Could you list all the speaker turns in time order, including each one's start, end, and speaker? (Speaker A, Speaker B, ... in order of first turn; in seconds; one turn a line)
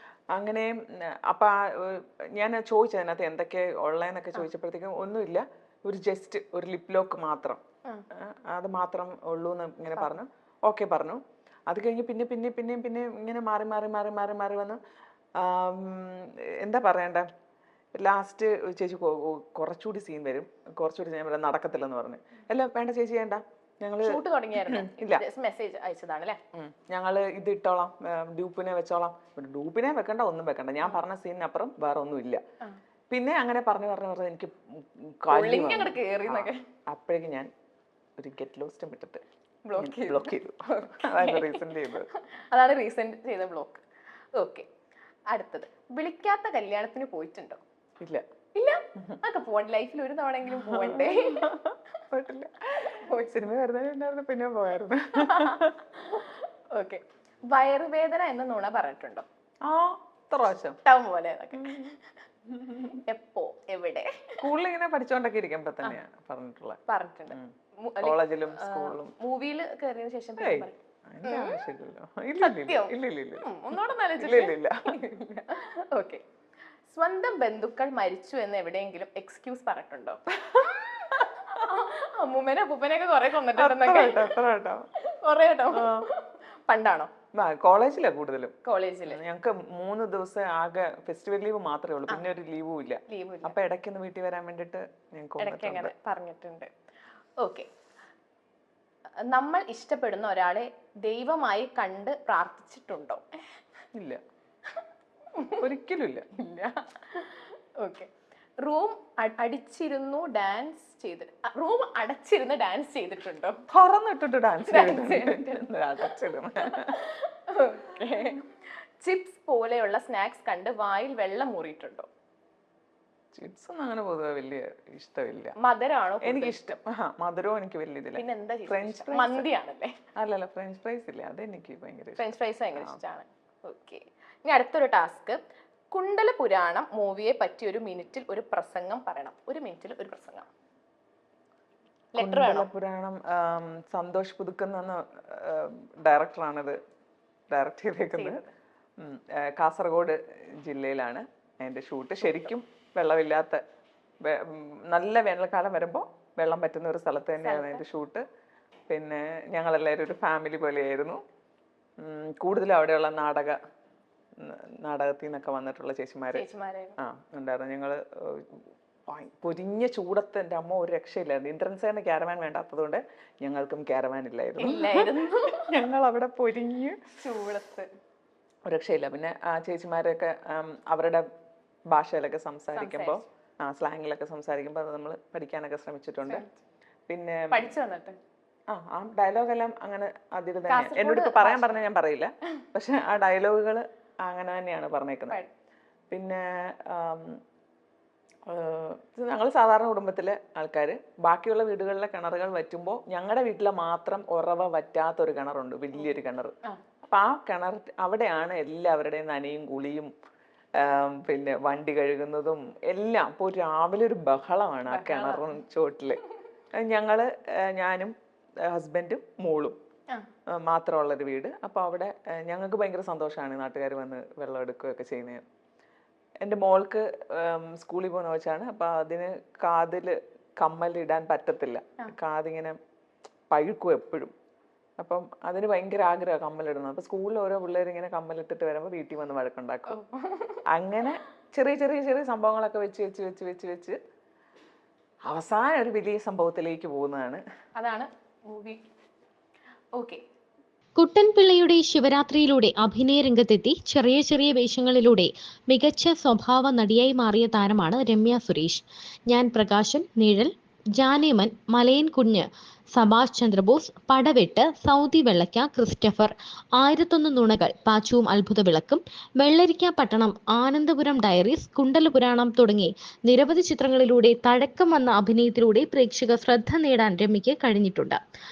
Speaker A: 0.3-14.8
Speaker A: 15.4-17.3
Speaker A: 18.0-25.2
Speaker B: 24.0-26.4
Speaker A: 26.5-32.4
Speaker A: 33.1-37.5
Speaker B: 35.3-36.6
Speaker A: 38.2-39.2
Speaker B: 39.7-43.8
Speaker A: 39.8-42.1
Speaker B: 44.4-44.7
Speaker B: 45.3-47.6
Speaker B: 48.5-51.5
Speaker A: 50.5-55.8
Speaker B: 52.9-53.3
Speaker B: 55.2-59.2
Speaker A: 59.6-60.8
Speaker B: 60.9-62.0
Speaker A: 61.6-62.0
Speaker A: 62.5-63.0
Speaker B: 62.8-64.4
Speaker A: 64.4-69.1
Speaker B: 66.9-71.6
Speaker A: 70.4-73.5
Speaker B: 72.4-76.2
Speaker A: 74.2-75.0
Speaker B: 76.9-84.4
Speaker A: 83.6-84.9
Speaker B: 85.0-87.1
Speaker A: 85.7-86.1
Speaker A: 87.3-95.9
Speaker B: 88.7-89.2
Speaker B: 93.1-93.5
Speaker B: 95.4-96.7
Speaker B: 97.4-97.7
Speaker B: 99.3-103.2
Speaker A: 104.0-104.2
Speaker B: 105.3-105.7
Speaker A: 105.6-106.3
Speaker B: 106.4-108.1
Speaker B: 108.6-113.6
Speaker A: 113.7-117.0
Speaker B: 114.7-118.5
Speaker B: 119.0-122.1
Speaker A: 123.3-125.6
Speaker B: 125.6-126.7
Speaker A: 126.2-129.5
Speaker B: 128.2-129.9
Speaker A: 130.2-133.0
Speaker B: 132.2-135.4
Speaker B: 135.9-140.5
Speaker B: 142.1-142.7
Speaker A: 142.2-146.8
Speaker A: 147.5-148.4
Speaker B: 148.1-148.5
Speaker A: 149.0-153.6
Speaker B: 152.2-152.5
Speaker A: 154.2-158.2
Speaker B: 157.4-157.8
Speaker A: 158.9-161.2
Speaker A: 162.0-163.6
Speaker A: 164.4-166.5
Speaker B: 166.3-167.0
Speaker A: 167.0-177.0
Speaker B: 174.6-175.8
Speaker B: 177.2-177.9
Speaker A: 178.7-181.2
Speaker A: 181.9-186.4
Speaker B: 182.7-183.2
Speaker B: 186.2-186.6
Speaker A: 187.1-187.7
Speaker B: 187.5-188.2
Speaker A: 188.7-195.4
Speaker B: 190.7-191.8
Speaker A: 196.1-197.4
Speaker A: 198.5-210.1
Speaker A: 210.8-216.2
Speaker B: 214.9-215.5
Speaker A: 216.7-218.1
Speaker A: 218.7-219.8
Speaker A: 220.6-225.4
Speaker A: 226.4-232.8
Speaker A: 233.5-234.3
Speaker A: 235.0-240.0
Speaker B: 239.9-240.6
Speaker A: 240.7-244.0
Speaker A: 245.3-247.4
Speaker B: 247.8-248.8
Speaker B: 250.0-250.2
Speaker C: 251.0-278.2